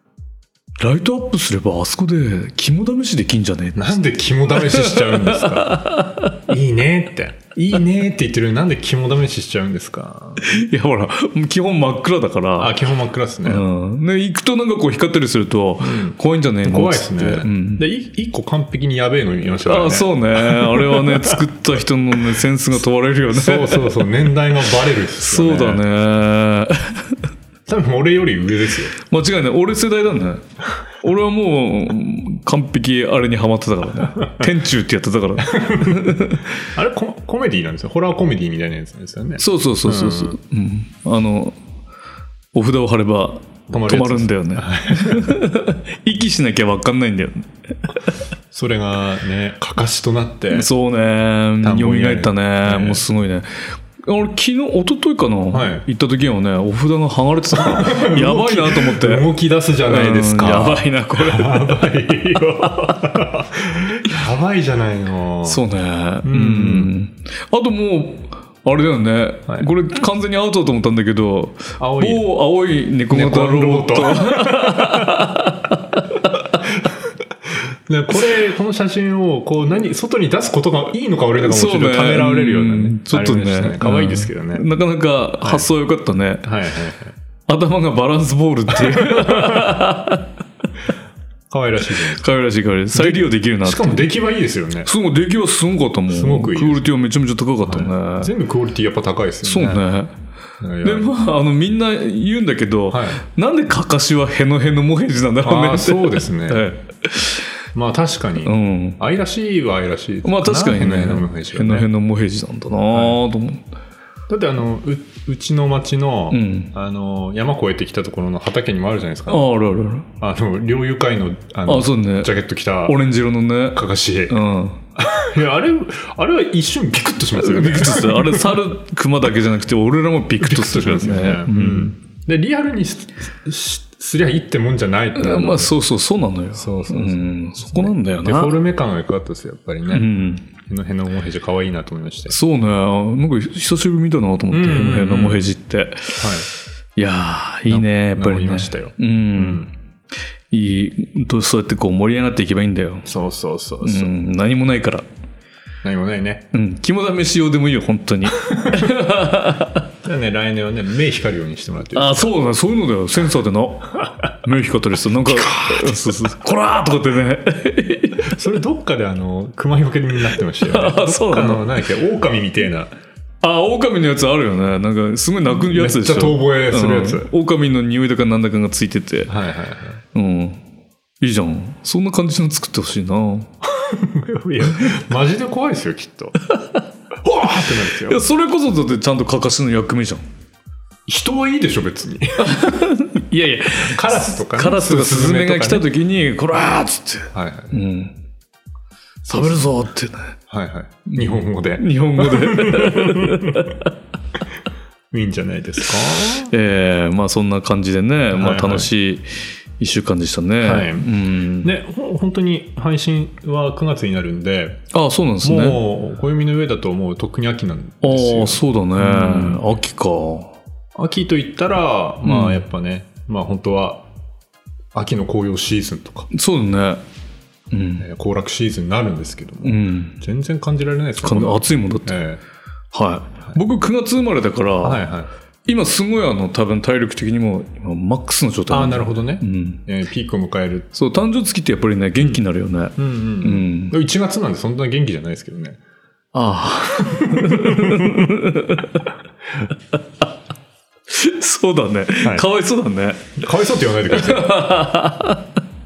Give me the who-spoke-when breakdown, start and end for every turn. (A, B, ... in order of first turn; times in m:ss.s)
0:00.8-0:04.0 A
0:03.7-0:10.5 B
0:04.5-0:06.4 A
0:10.4-0:12.8 A
0:12.6-0:13.6 B
0:13.4-0:17.8 A
0:15.8-0:21.5 B
0:19.6-0:24.0 A
0:23.3-0:25.8 B
0:25.2-0:27.2 A
0:27.7-0:29.0 B
0:29.0-0:30.4 A
0:31.0-0:36.5 A
0:35.4-0:40.4 B
0:39.4-0:41.6 A
0:42.5-0:47.5 A
0:43.7-0:45.4 B
0:48.5-0:50.7 B
0:50.5-0:59.3 A
0:51.6-0:53.0 B
0:55.5-0:55.8 B
0:57.5-1:05.6 B
0:59.8-1:01.9 A
1:05.4-1:16.4 A
1:06.2-1:06.9 B
1:11.8-1:12.3 B
1:13.1-1:15.3 B
1:16.6-1:24.6 B
1:21.4-1:26.5 A
1:26.4-1:27.1 B
1:27.5-1:30.3 A
1:28.7-1:29.7 B
1:31.5-1:32.2 B
1:32.0-1:34.1 A
1:32.9-1:34.9 B
1:34.8-1:38.3 A
1:36.1-1:36.9 B
1:37.6-1:39.8 B
1:39.4-1:40.1 A
1:40.6-1:41.1 B
1:40.8-1:47.5 A
1:42.9-1:43.2 B
1:45.4-1:46.6 B
1:47.7-1:51.9 B
1:48.4-1:49.0 A
1:50.2-1:53.6 A
1:52.9-1:53.2 B
1:54.3-1:59.4 B
1:56.3-1:56.7 A
1:59.3-2:00.1 A
2:00.2-2:03.0 B
2:01.7-2:02.3 A
2:02.8-2:04.8 A
2:03.7-2:04.4 B
2:05.0-2:08.7 B
2:07.4-2:11.9 A
2:10.4-2:15.7 B
2:15.1-2:18.6 A
2:16.5-2:22.4 B
2:19.9-2:20.4 A
2:22.3-2:26.4 A
2:24.5-2:25.5 B
2:26.2-2:26.5 B
2:27.0-2:29.7 A
2:27.7-2:29.7 B
2:30.5-2:33.1 A
2:33.0-2:34.1 B
2:33.8-2:35.1 A
2:35.8-2:36.5 B
2:36.5-2:39.8 A
2:38.6-2:38.9 B
2:40.0-2:42.3 B
2:41.9-2:48.3 A
2:45.2-2:46.2 B
2:48.2-2:52.9 B
2:50.6-2:51.8 A
2:53.4-2:59.3 A
2:55.6-2:57.3 B
2:59.3-3:00.0 B
3:00.1-3:00.6 A
3:01.2-3:03.5 A
3:03.8-3:06.4 B
3:07.2-3:08.2 B
3:07.9-3:10.2 A
3:11.1-3:12.8 B
3:12.4-3:18.2 A
3:13.8-3:15.9 B
3:17.3-3:17.8 B
3:19.2-3:19.6 B
3:19.3-3:20.4 A
3:20.5-3:23.6 B
3:21.1-3:23.9 A
3:25.1-3:26.5 B
3:26.4-3:31.7 A
3:28.3-3:28.9 B
3:30.6-3:34.9 B
3:34.9-3:35.8 A
3:35.4-3:39.6 B
3:38.0-3:40.6 A
3:41.0-3:44.1 B
3:42.2-3:42.6 A
3:44.9-3:46.3 B
3:46.3-3:47.0 A
3:47.7-3:48.0 A
3:48.0-3:52.4 B
3:49.6-3:50.2 A
3:51.2-3:52.2 A
3:52.9-3:55.0 A
3:54.8-3:55.3 B
3:55.7-3:59.8 A
3:58.7-4:00.9 B
4:00.9-4:04.0 A
4:03.0-4:05.8 B
4:06.3-4:09.1 A
4:07.0-4:08.3 B
4:11.1-4:13.4 A
4:13.4-4:14.6 B
4:14.1-4:15.5 A